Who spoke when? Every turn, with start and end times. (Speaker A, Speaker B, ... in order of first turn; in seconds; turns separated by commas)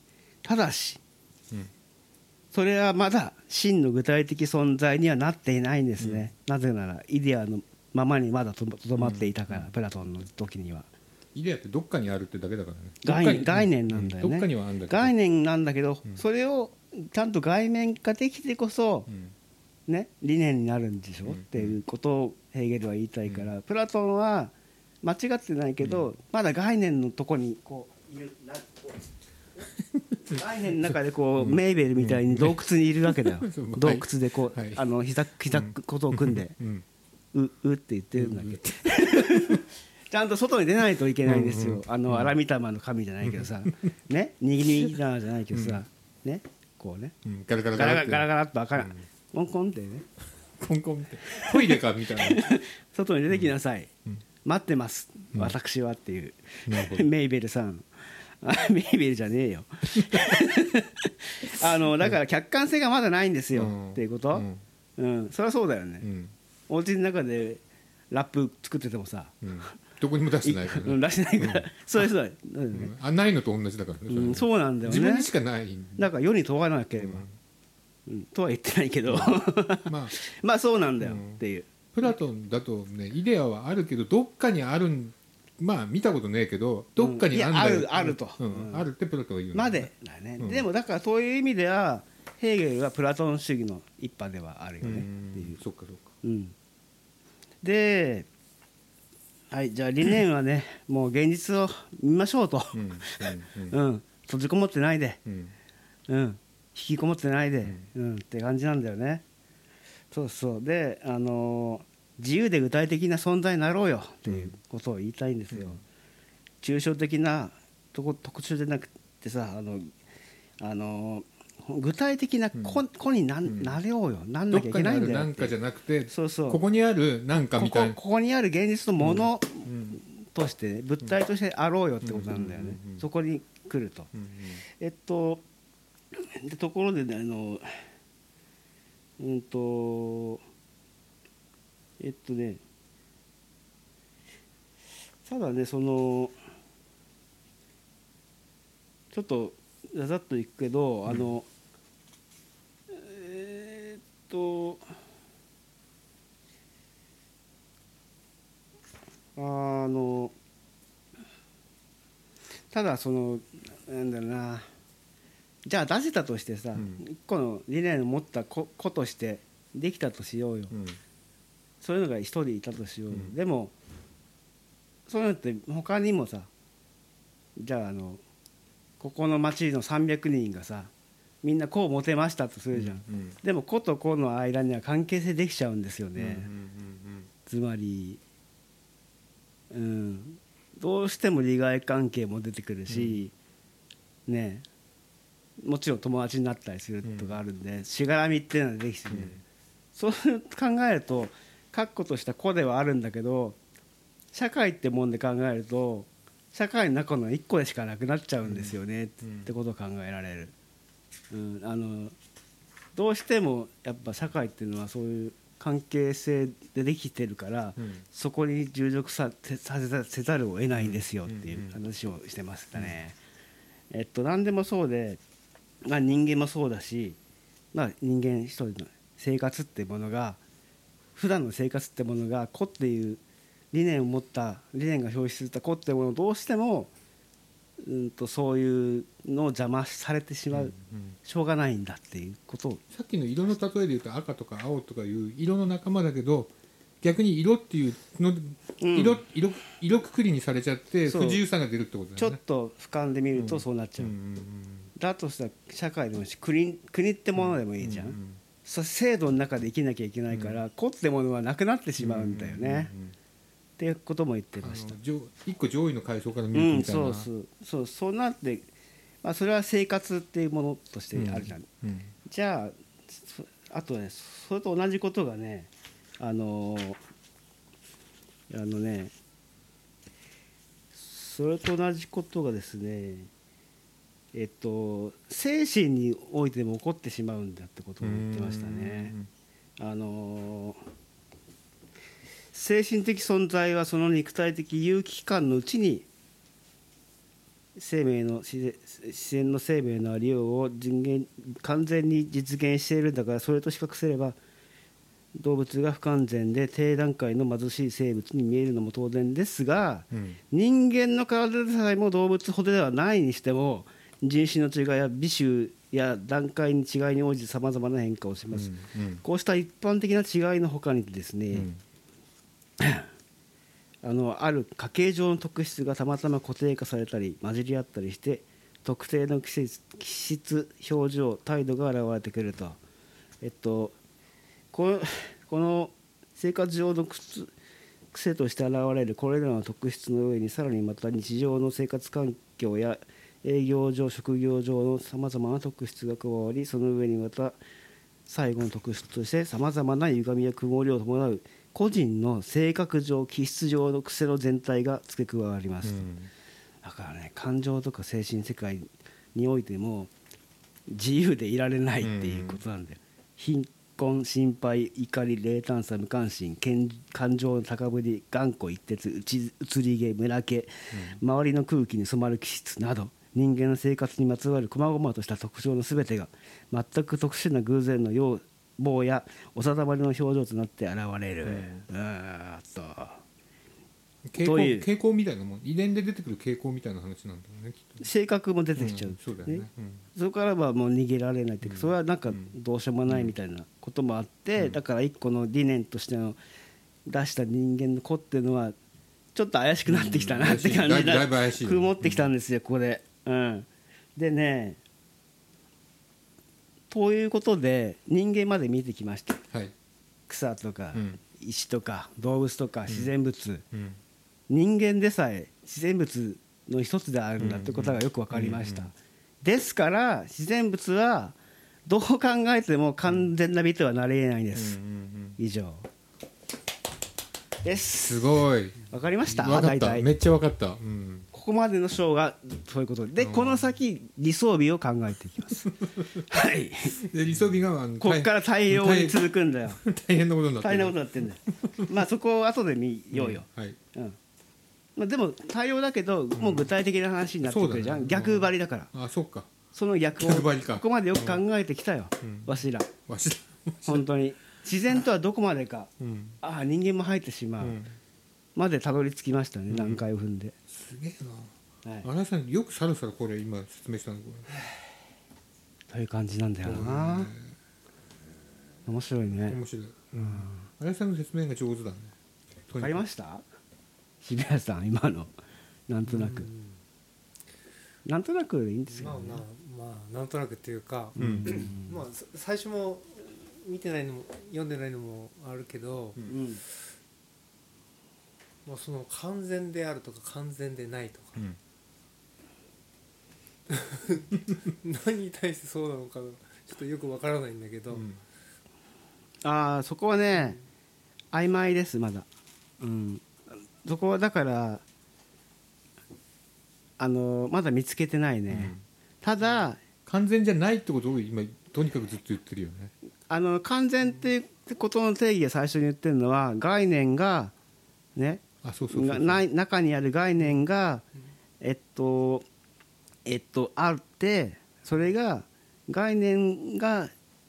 Speaker A: 0.4-1.0, Speaker A: 2.5-10.9, Speaker B: 6.0-6.3, Speaker B: 9.0-9.7, Speaker B: 11.3-15.1, Speaker A: 13.0-19.1, Speaker B: 19.1-19.3, Speaker A: 19.9-29.0, Speaker B: 21.3-21.8, Speaker B: 25.8-26.1, Speaker B: 30.0-30.9, Speaker A: 30.3-36.5, Speaker B: 31.4-34.8, Speaker B: 35.5-36.8, Speaker A: 37.3-47.1, Speaker B: 38.2-39.6, Speaker B: 41.2-42.4, Speaker B: 43.2-43.7, Speaker B: 45.5-45.8, Speaker B: 47.2-49.0, Speaker A: 47.8-50.0, Speaker B: 50.6-52.5, Speaker A: 51.3-53.9, Speaker A: 54.5-57.9, Speaker B: 56.7-57.1, Speaker A: 58.4-64.5, Speaker B: 63.5-64.6, Speaker A: 65.0-66.1, Speaker B: 66.0-66.3, Speaker A: 66.7-69.4, Speaker B: 69.4-72.1, Speaker A: 70.4-72.9, Speaker B: 72.7-76.1, Speaker A: 74.1-75.3, Speaker A: 76.0-77.2, Speaker B: 77.0-77.3, Speaker A: 78.1-81.7, Speaker B: 79.1-80.1, Speaker B: 81.0-81.4, Speaker B: 81.9-90.6, Speaker A: 87.0-88.8, Speaker A: 89.5-95.6, Speaker B: 94.8-96.1, Speaker A: 96.2-96.5, Speaker A: 97.6-98.3, Speaker A: 99.5-105.2, Speaker B: 102.7-103.8, Speaker B: 105.3-105.5, Speaker A: 106.1-109.2, Speaker A: 110.1-115.8, Speaker A: 116.6-119.9, Speaker A: 120.6-125.5, Speaker B: 123.5-123.8, Speaker B: 124.5-128.0, Speaker A: 126.1-126.6, Speaker A: 127.6-134.1, Speaker B: 129.0-130.0, Speaker B: 132.0-133.0, Speaker B: 134.1-134.6, Speaker A: 134.7-135.4, Speaker A: 136.2-137.8, Speaker A: 139.2-140.4, Speaker A: 142.0-142.6, Speaker A: 145.2-146.3, Speaker A: 149.1-151.5, Speaker A: 152.9-154.8, Speaker A: 159.4-160.3, Speaker A: 162.7-164.7, Speaker A: 165.7-170.7, Speaker B: 166.8-167.0, Speaker B: 170.7-171.0, Speaker A: 171.8-173.7, Speaker A: 175.1-176.5, Speaker A: 177.6-178.2, Speaker A: 179.0-180.9, Speaker A: 181.4-186.5, Speaker B: 182.7-183.4, Speaker B: 186.2-187.3, Speaker A: 187.5-188.2, Speaker A: 189.7-193.3, Speaker B: 192.9-193.2, Speaker A: 194.3-194.7, Speaker A: 195.6-199.4, Speaker B: 197.0-197.4, Speaker B: 199.1-199.4, Speaker A: 199.9-203.6, Speaker A: 204.3-210.5, Speaker B: 208.4-209.5, Speaker A: 211.3-212.1, Speaker A: 212.9-223.2, Speaker B: 217.8-218.0, Speaker B: 220.8-221.8, Speaker A: 223.9-225.2, Speaker A: 225.8-227.2, Speaker A: 227.7-230.4, Speaker A: 231.2-233.2, Speaker A: 233.7-236.9, Speaker A: 237.8-240.7, Speaker B: 240.5-241.2, Speaker A: 241.2-242.8, Speaker B: 242.9-246.5, Speaker B: 247.0-252.4, Speaker A: 248.8-249.2, Speaker A: 251.1-251.4, Speaker A: 252.2-254.1, Speaker B: 253.3-254.9, Speaker A: 255.0-262.9, Speaker B: 257.4-258.4, Speaker B: 260.3-260.6, Speaker B: 262.0-263.1, Speaker A: 263.8-265.0, Speaker B: 264.6-267.3, Speaker A: 266.5-268.7, Speaker A: 269.2-271.7, Speaker B: 271.1-272.1, Speaker A: 272.3-277.0, Speaker A: 278.5-279.1, Speaker A: 280.9-283.3, Speaker A: 284.3-289.1, Speaker B: 288.0-289.3, Speaker A: 289.8-290.8, Speaker A: 292.5-296.1, Speaker A: 297.8-304.4, Speaker A: 305.4-321.7, Speaker B: 310.1-310.4, Speaker B: 318.5-319.2, Speaker B: 321.5-321.8, Speaker A: 322.8-323.1, Speaker A: 324.0-332.8, Speaker A: 333.4-333.9, Speaker A: 334.7-337.5, Speaker A: 338.1-347.6, Speaker A: 348.3-356.1, Speaker B: 355.8-356.3, Speaker A: 356.8-360.1, Speaker A: 360.9-383.2, Speaker B: 362.0-362.6, Speaker B: 370.9-371.2, Speaker B: 381.4-381.9, Speaker B: 384.2-388.0, Speaker A: 384.4-384.9, Speaker A: 388.0-396.4, Speaker B: 388.8-390.1, Speaker B: 391.6-392.5, Speaker B: 393.1-393.3, Speaker A: 397.1-398.8, Speaker A: 399.4-404.8, Speaker B: 399.9-402.3, Speaker A: 406.9-409.4, Speaker A: 410.3-413.6, Speaker B: 413.7-414.0, Speaker A: 414.5-421.4, Speaker B: 417.4-418.9, Speaker A: 421.9-424.8, Speaker B: 424.6-425.4, Speaker A: 425.4-425.9, Speaker A: 427.6-430.1, Speaker B: 428.0-431.3, Speaker A: 431.3-437.0, Speaker B: 433.2-433.6, Speaker B: 437.0-439.2, Speaker A: 438.0-439.8, Speaker B: 439.8-441.0, Speaker A: 440.6-444.2, Speaker B: 441.5-441.8, Speaker B: 443.1-443.8, Speaker A: 445.0-448.9, Speaker B: 446.4-446.7, Speaker B: 447.4-449.5, Speaker A: 449.7-452.9, Speaker B: 450.2-451.4, Speaker B: 452.2-454.1, Speaker A: 453.9-455.9, Speaker B: 456.0-456.4, Speaker A: 456.4-457.8, Speaker B: 457.6-457.9, Speaker A: 458.6-460.5, Speaker B: 459.7-460.0, Speaker B: 460.7-464.5, Speaker A: 465.9-467.3, Speaker B: 466.6-467.5, Speaker A: 468.9-469.6, Speaker B: 469.5-472.1, Speaker A: 470.2-470.6, Speaker B: 472.7-473.0, Speaker A: 472.8-473.4, Speaker A: 474.2-475.3, Speaker A: 475.9-476.5, Speaker C: 476.1-476.8, Speaker A: 478.1-479.4, Speaker C: 478.9-486.3, Speaker A: 481.2-482.0, Speaker B: 481.2-481.6, Speaker A: 486.3-486.6, Speaker C: 488.6-491.4, Speaker C: 493.7-498.1, Speaker B: 497.9-498.2, Speaker A: 499.4-500.6, Speaker A: 501.3-502.3, Speaker A: 502.8-503.3, Speaker A: 503.8-504.8, Speaker A: 507.0-509.8, Speaker B: 508.5-508.8, Speaker B: 510.1-512.9, Speaker A: 513.3-517.5, Speaker A: 518.2-521.0, Speaker B: 518.6-519.4, Speaker A: 521.6-522.5, Speaker A: 523.3-527.1